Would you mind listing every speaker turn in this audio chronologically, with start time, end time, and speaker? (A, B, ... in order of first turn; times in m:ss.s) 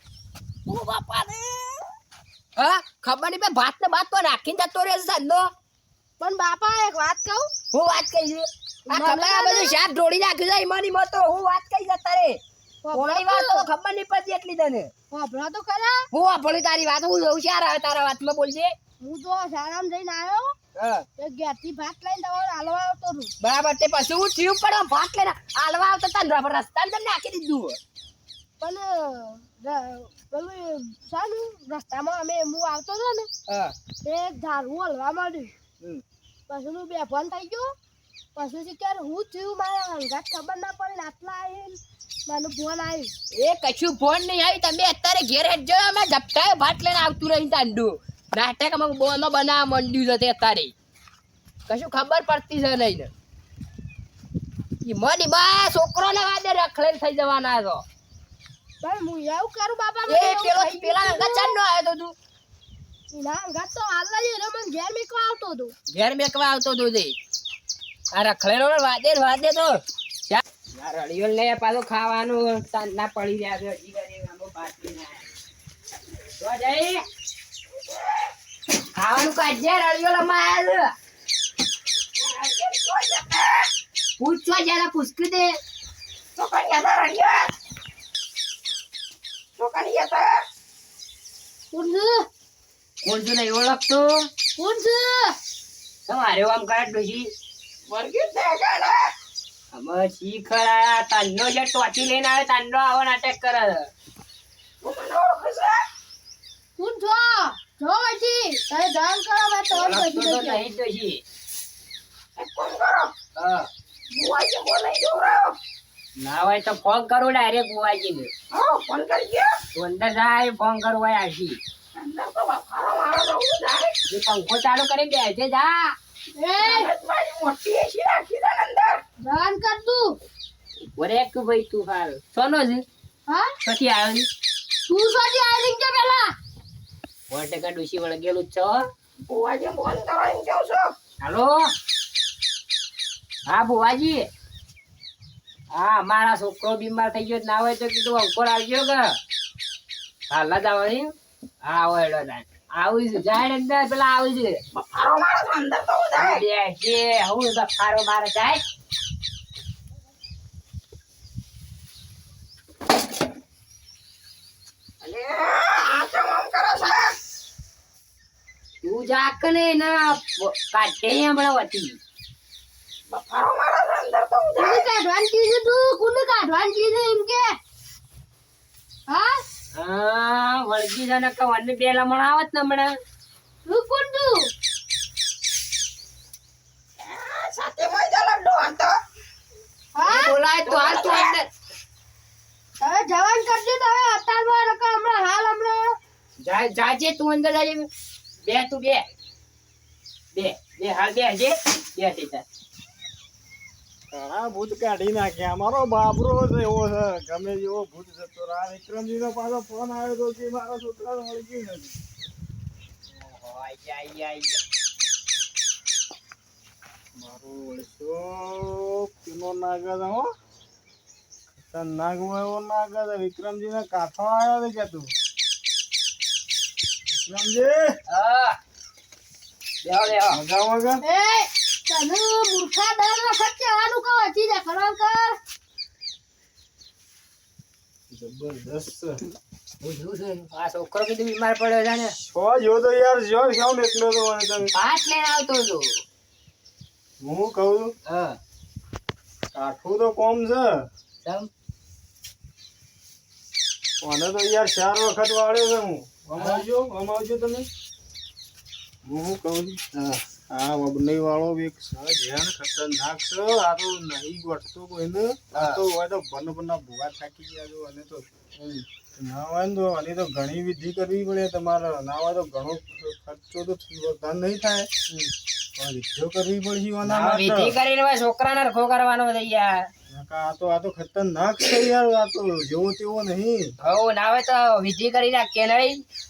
0:00.7-0:01.8 A
0:02.6-0:05.5 A
0:06.2-0:07.5 B
0:07.7-0:12.4 A
0:08.9-0:09.8 B
0:12.8-0:13.7 B
0:12.9-0:14.9 A
0:15.1-0:16.0 B
0:16.1-0:18.7 A
0:19.0-0:20.5 B
0:20.8-0:21.1 A
0:21.2-0:23.3 B
0:23.4-0:27.8 A
0:28.6-0:33.3 B
0:33.5-0:33.8 A
0:34.0-0:35.5 B
0:36.5-0:37.7 B
0:38.4-0:43.1 B
0:43.3-0:50.7 A
0:51.7-0:53.1 A
0:54.8-0:57.8 A
0:58.8-1:01.6 B
1:00.1-1:02.2 A
1:03.1-1:05.7 B
1:05.9-1:07.2 A
1:08.1-1:15.3 A
1:16.4-1:17.0 A
1:17.9-1:18.2 C
1:19.0-1:20.9 A
1:22.2-1:23.7 C
1:24.2-1:25.6 A
1:26.4-1:27.5 C
1:29.6-1:30.4 C
1:31.7-1:32.2 B
1:33.0-1:34.3 A
1:34.6-1:35.4 B
1:36.1-1:37.3 A
1:37.9-1:39.1 C
1:39.7-1:43.9 A
1:44.8-1:45.8 C
1:46.8-1:50.7 B
1:49.7-1:51.2 A
1:52.4-1:53.1 C
1:53.4-1:53.7 A
1:54.1-1:55.6 C
1:56.2-1:58.3 A
1:58.5-1:59.6 C
1:59.8-2:01.6 A
2:02.0-2:04.0 C
2:04.1-2:06.0 A
2:06.4-2:06.9 B
2:06.6-2:09.0 C
2:09.2-2:10.2 B
2:11.0-2:12.8 A
2:13.3-2:13.5 B
2:13.6-2:14.3 A
2:14.9-2:16.3 B
2:17.3-2:18.8 A
2:19.3-2:20.9 C
2:21.2-2:21.7 A
2:23.5-2:24.3 A
2:25.7-2:29.2 A
2:30.3-2:31.1 A
2:31.6-2:34.6 A
2:34.8-2:36.4 C
2:36.2-2:38.6 A
2:45.0-2:47.1 C
2:48.8-2:52.0 A
2:53.1-2:54.9 C
2:54.6-2:57.5 B
2:59.1-2:59.4 B
2:59.8-3:03.0 A
3:03.6-3:04.5 B
3:07.0-3:09.0 C
3:10.0-3:10.3 B
3:10.0-3:11.5 A
3:10.6-3:11.3 C
3:12.8-3:16.0 B
3:16.4-3:17.9 A
3:18.4-3:19.0 A
3:20.3-3:22.4 A
3:24.1-3:32.0 D
3:33.1-3:34.6 A
3:37.2-3:40.3 D
3:41.6-3:45.1 D
3:47.1-3:48.0 D
3:48.1-3:48.6 A
3:49.8-3:50.4 A
3:50.2-3:51.0 D
3:51.0-3:55.4 B
3:58.1-3:59.2 D
3:59.8-4:02.2 A
4:02.3-4:04.7 D
4:04.7-4:06.0 A
4:07.2-4:07.9 D
4:08.1-4:08.4 A
4:09.5-4:10.9 D
4:11.2-4:11.5 A
4:14.0-4:17.7 D
4:16.4-4:16.6 A
4:19.0-4:19.8 D
4:20.4-4:28.3 D
4:25.5-4:25.8 A
4:28.6-4:28.8 A
4:29.2-4:34.9 D
4:35.8-4:37.8 D
4:37.0-4:39.9 A
4:40.1-4:43.7 D
4:43.8-4:46.0 A